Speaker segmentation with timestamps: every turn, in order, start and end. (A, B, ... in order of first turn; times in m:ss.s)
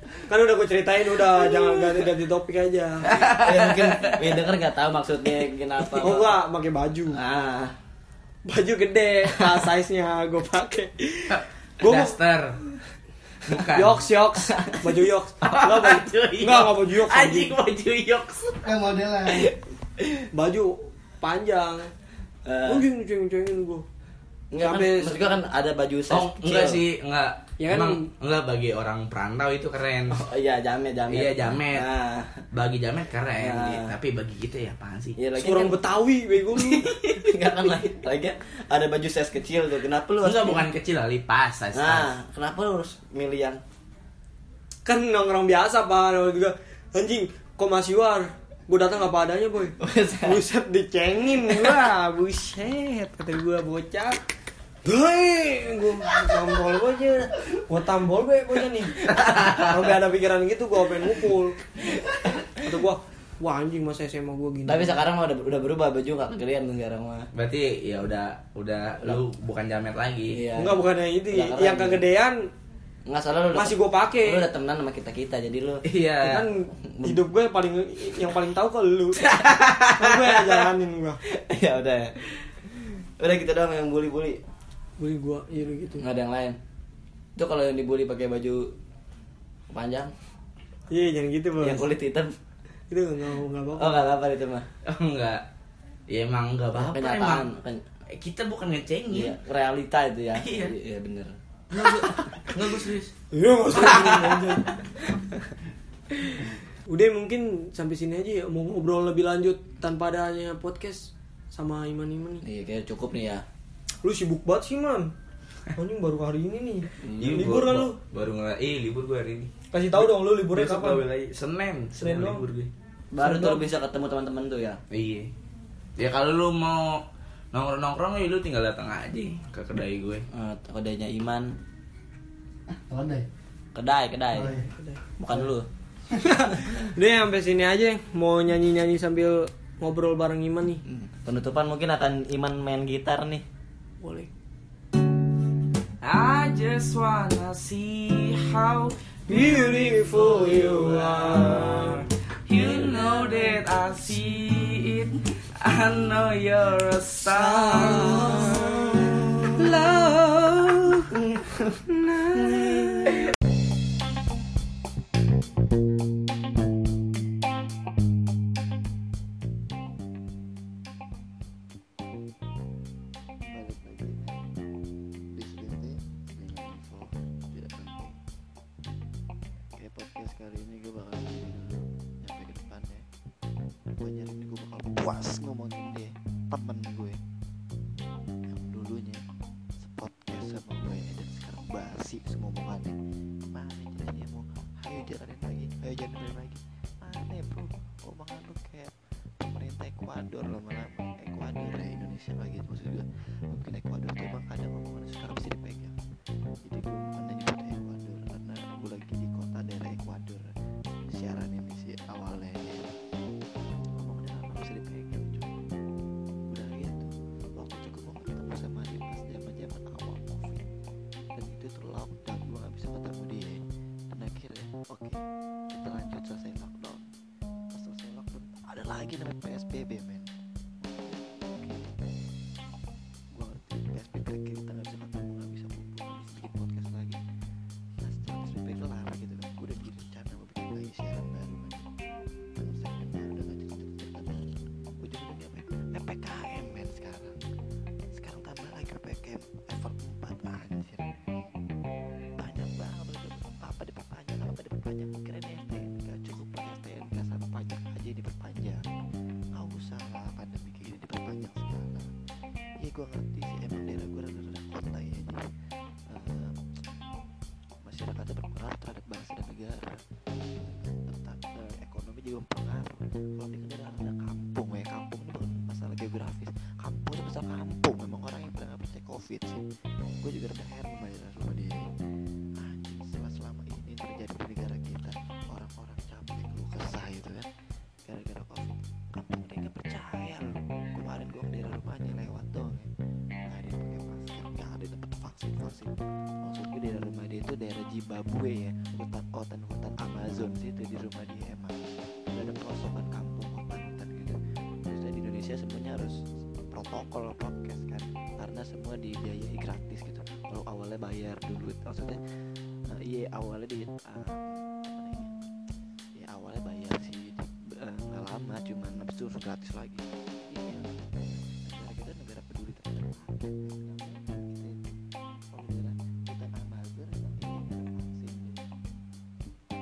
0:00.3-0:03.1 A
0:03.1-0:04.4 B
0:03.2-0:06.4 C
0:06.0-0:07.2 A
0:07.1-0:07.8 C
0:08.4-0:12.2 A
0:11.3-0:12.6 B
0:13.4-0:14.0 B
0:13.7-0:17.6 A
0:14.5-0:14.9 C
0:15.4-0:18.7 B
0:18.6-0:19.5 D
0:19.3-0:20.3 C
0:20.3-0:21.9 A
0:22.4-0:22.9 C
0:22.7-0:23.8 A
0:24.5-0:26.8 C
0:24.6-0:25.2 A
0:26.1-0:30.2 B
0:27.6-0:28.1 A
0:30.1-0:32.4 C
0:31.1-0:31.9 B
0:32.5-0:35.2 B
0:33.4-0:33.9 C
0:35.2-0:35.8 C
0:35.4-0:37.0 A
0:36.6-0:40.7 C
0:40.2-0:42.1 B
0:41.7-0:43.6 C
0:44.8-0:54.2 A
0:49.8-0:50.4 C
0:54.8-1:01.6 A
0:59.2-0:59.7 B
1:02.0-1:02.5 C
1:02.6-1:04.9 A
1:04.7-1:07.3 C
1:07.3-1:10.4 B
1:10.3-1:12.0 C
1:10.6-1:12.5 A
1:13.1-1:15.8 C
1:13.5-1:14.5 A
1:15.8-1:16.5 B
1:16.2-1:19.2 A
1:16.9-1:17.2 C
1:19.2-1:20.0 B
1:19.9-1:21.2 A
1:21.3-1:22.2 C
1:23.2-1:24.4 C
1:25.0-1:26.0 A
1:26.0-1:26.6 C
1:27.4-1:28.7 C
1:29.7-1:30.1 C
1:30.9-1:31.8 A
1:31.6-1:32.4 C
1:32.9-1:34.0 A
1:33.8-1:34.7 C
1:34.8-1:35.4 B
1:36.1-1:37.5 B
1:36.7-1:37.8 C
1:38.1-1:39.4 B
1:39.1-1:41.3 C
1:40.4-1:40.7 B
1:41.7-1:43.1 B
1:43.3-1:44.7 A
1:43.8-1:44.5 B
1:46.9-1:52.4 A
1:52.4-1:53.4 C
1:54.0-1:55.1 A
1:55.7-1:58.0 A
1:57.0-1:57.6 C
1:57.2-2:02.7 B
1:59.7-2:01.0 A
2:02.0-2:02.4 A
2:03.1-2:04.8 C
2:03.2-2:03.6 A
2:04.9-2:05.3 B
2:06.0-2:10.3 B
2:10.3-2:11.6 C
2:12.7-2:13.3 D
2:13.8-2:14.6 C
2:14.3-2:14.6 D
2:14.4-2:15.0 A
2:15.2-2:15.7 C
2:16.2-2:20.8 A
2:20.9-2:23.4 C
2:24.0-2:24.3 A
2:26.0-2:38.1 B
2:29.3-2:32.0 A
2:31.3-2:31.6 C
2:32.8-2:33.4 A
2:37.3-2:41.1 A
2:37.7-2:39.5 C
2:41.3-2:41.7 C
2:41.9-2:43.2 A
2:53.5-2:54.4 E
2:55.3-2:58.2 E
2:59.7-3:03.0 E
3:04.0-3:07.2 E
3:08.5-3:09.3 E
3:09.8-3:13.0 E
3:13.5-3:26.0 E
3:26.6-3:30.5 E
3:31.1-3:33.0 E
3:34.0-3:35.6 E
3:36.5-3:40.6 E
3:41.4-3:47.1 E
3:47.7-3:52.0 E
3:53.3-3:57.2 E
3:58.0-4:01.9 E
4:02.6-4:07.4 E
4:08.1-4:11.1 E
4:12.4-4:18.8 E
4:19.5-4:22.1 E
4:22.8-4:25.5 E
4:26.1-4:26.7 E
4:27.8-4:39.7 E
4:40.2-4:41.9 E
4:42.6-4:47.5 E
4:48.1-4:52.9 E
4:53.5-5:15.5 E
5:16.2-5:25.0 E
5:25.5-5:28.7 E